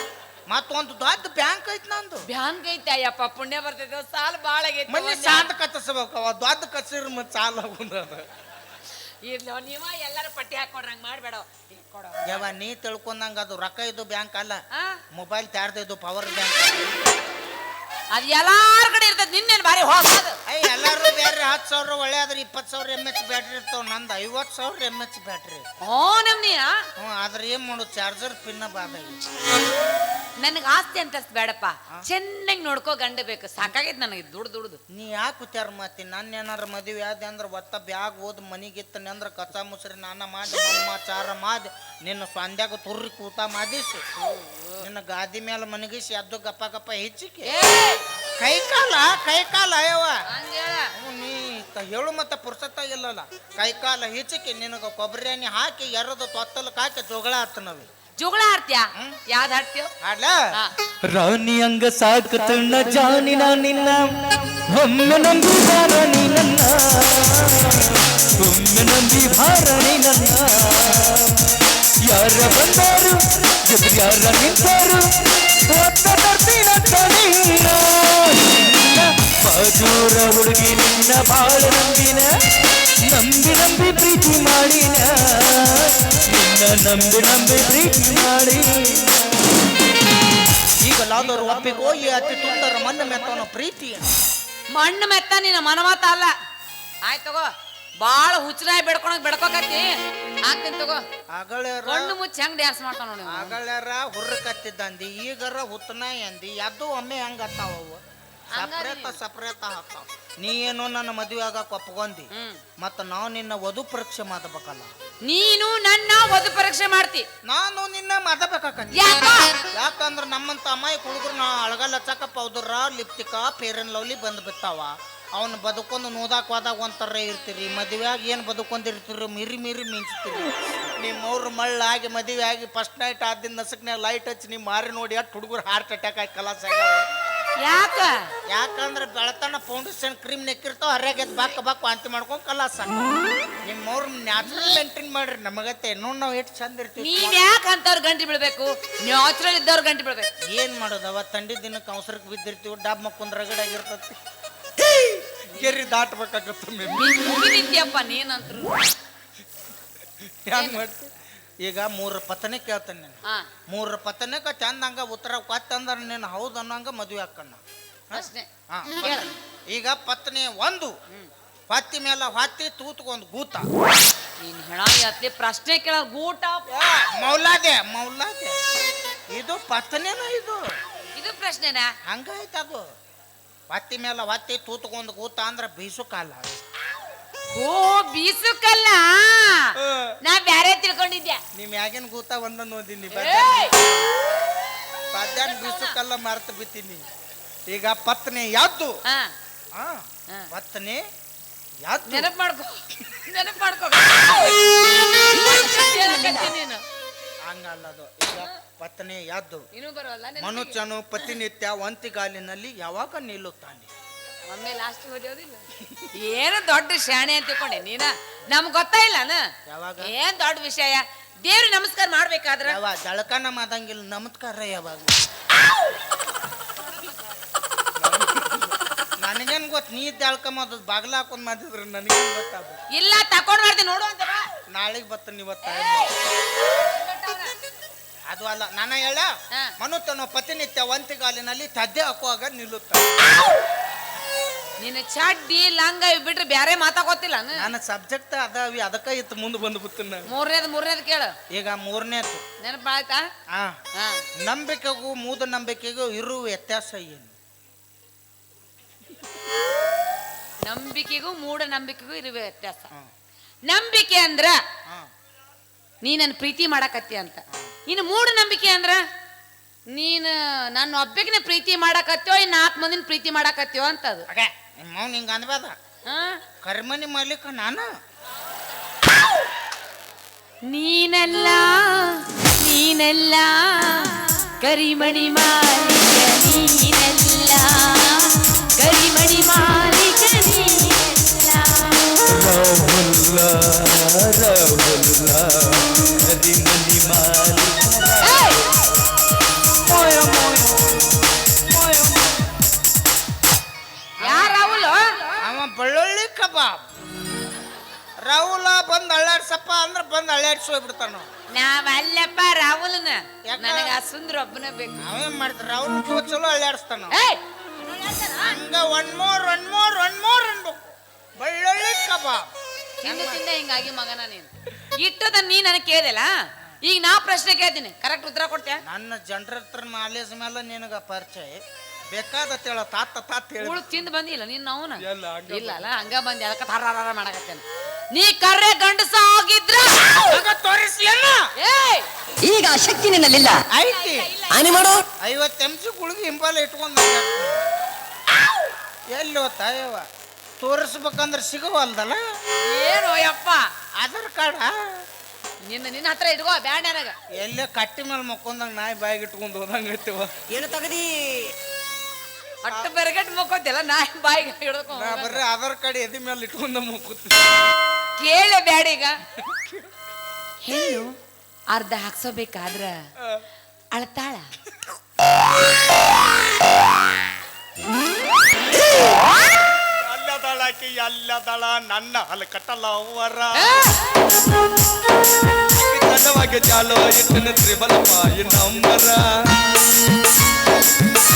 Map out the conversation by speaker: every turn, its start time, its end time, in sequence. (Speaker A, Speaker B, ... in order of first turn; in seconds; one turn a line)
Speaker A: 0.5-2.3
Speaker B: 2.3-5.5
Speaker A: 4.9-8.3
Speaker B: 9.2-12.5
Speaker A: 12.3-14.6
Speaker B: 14.7-15.0
Speaker A: 15.1-17.1
Speaker B: 18.1-20.4
Speaker A: 20.5-25.6
Speaker B: 25.8-26.8
Speaker A: 27.0-29.2
Speaker B: 30.4-34.8
Speaker A: 34.9-44.0
Speaker B: 44.2-44.9
Speaker A: 44.8-47.5
Speaker B: 47.5-48.0
Speaker A: 48.4-50.2
Speaker B: 50.3-50.9
Speaker A: 51.0-57.9
Speaker B: 58.2-59.9
Speaker A: 60.0-60.4
Speaker C: 61.0-71.5
Speaker C: 72.0-82.3
Speaker C: 83.0-89.2
Speaker A: 90.8-94.1
Speaker C: 91.2-93.3
Speaker B: 94.7-96.3
Speaker B: 97.0-97.5
Speaker B: 98.0-99.9
Speaker B: 100.5-101.0
Speaker A: 101.3-102.2
Speaker B: 101.8-103.6
Speaker A: 103.3-108.0
Speaker B: 108.5-109.2
Speaker A: 108.5-114.9
Speaker B: 112.3-112.6
Speaker B: 115.2-117.3
Speaker A: 117.5-119.1
Speaker B: 118.9-119.6
Speaker A: 119.7-137.1
Speaker B: 137.6-138.1
Speaker A: 138.5-143.1
Speaker A: 143.7-147.4
Speaker B: 147.0-150.3
Speaker A: 150.5-154.2
Speaker B: 155.5-156.0
Speaker A: 155.5-157.0
Speaker B: 156.9-158.9
Speaker A: 160.4-161.1
Speaker B: 160.5-160.8
Speaker A: 161.6-170.9
Speaker B: 168.1-168.5
Speaker B: 169.0-169.3
Speaker A: 171.7-173.7
Speaker B: 174.4-176.7
Speaker A: 176.7-178.6
Speaker A: 179.3-180.8
Speaker B: 181.2-181.9
Speaker A: 182.1-182.9
Speaker A: 183.7-186.6
Speaker B: 187.5-191.4
Speaker A: 191.5-193.9
Speaker B: 193.1-193.8
Speaker A: 195.1-197.1
Speaker B: 195.3-196.0
Speaker A: 197.7-198.9
Speaker A: 199.8-201.0
Speaker A: 201.8-202.3
Speaker B: 202.1-206.8
Speaker A: 207.5-209.7
Speaker B: 209.7-211.3
Speaker A: 210.4-213.9
Speaker B: 214.5-215.6
Speaker A: 215.8-216.1
Speaker B: 216.2-219.4
Speaker A: 219.7-220.1
Speaker B: 220.0-222.8
Speaker A: 222.7-225.2
Speaker A: 228.0-232.8
Speaker B: 232.9-234.4
Speaker A: 234.7-236.2
Speaker B: 235.7-237.5
Speaker A: 238.3-243.1
Speaker B: 244.8-247.7
Speaker A: 247.6-250.2
Speaker B: 250.3-251.3
Speaker A: 251.5-252.4
Speaker B: 252.6-253.2
Speaker A: 253.5-253.8
Speaker B: 254.0-254.2
Speaker A: 254.4-257.3
Speaker B: 260.7-262.9
Speaker B: 263.7-264.6
Speaker B: 266.0-269.0
Speaker B: 269.9-274.2
Speaker A: 274.3-275.7
Speaker B: 276.1-276.4
Speaker A: 276.6-277.9
Speaker B: 280.7-292.0
Speaker C: 292.3-298.4
Speaker B: 298.2-298.8
Speaker C: 299.7-302.5
Speaker B: 304.2-305.0
Speaker A: 304.2-304.6
Speaker A: 305.4-306.8
Speaker A: 308.2-311.3
Speaker B: 311.5-315.0
Speaker A: 313.5-313.9
Speaker A: 315.0-317.1
Speaker B: 317.1-318.6
Speaker A: 318.4-322.5
Speaker B: 323.0-326.3
Speaker A: 323.0-323.4
Speaker B: 326.8-328.8
Speaker A: 328.9-334.0
Speaker B: 333.6-340.4
Speaker D: 335.1-335.9
Speaker A: 340.2-341.5
Speaker B: 341.6-342.1
Speaker E: 342.4-343.6
Speaker A: 343.7-344.3
Speaker B: 343.9-344.9
Speaker E: 344.6-345.1
Speaker A: 345.2-347.7
Speaker A: 349.1-350.1
Speaker A: 350.6-352.2
Speaker B: 352.6-353.6
Speaker A: 354.0-355.0
Speaker B: 355.6-357.1
Speaker A: 357.4-360.4
Speaker E: 360.5-361.5
Speaker B: 362.6-365.4
Speaker A: 364.9-367.6
Speaker B: 368.2-369.2
Speaker A: 369.4-369.8
Speaker B: 370.7-371.1
Speaker B: 371.7-373.0
Speaker B: 373.9-374.5
Speaker D: 379.9-381.0
Speaker A: 380.6-382.1
Speaker D: 381.5-382.5
Speaker A: 382.6-383.4
Speaker B: 383.6-384.1
Speaker D: 385.7-389.2
Speaker C: 386.6-388.8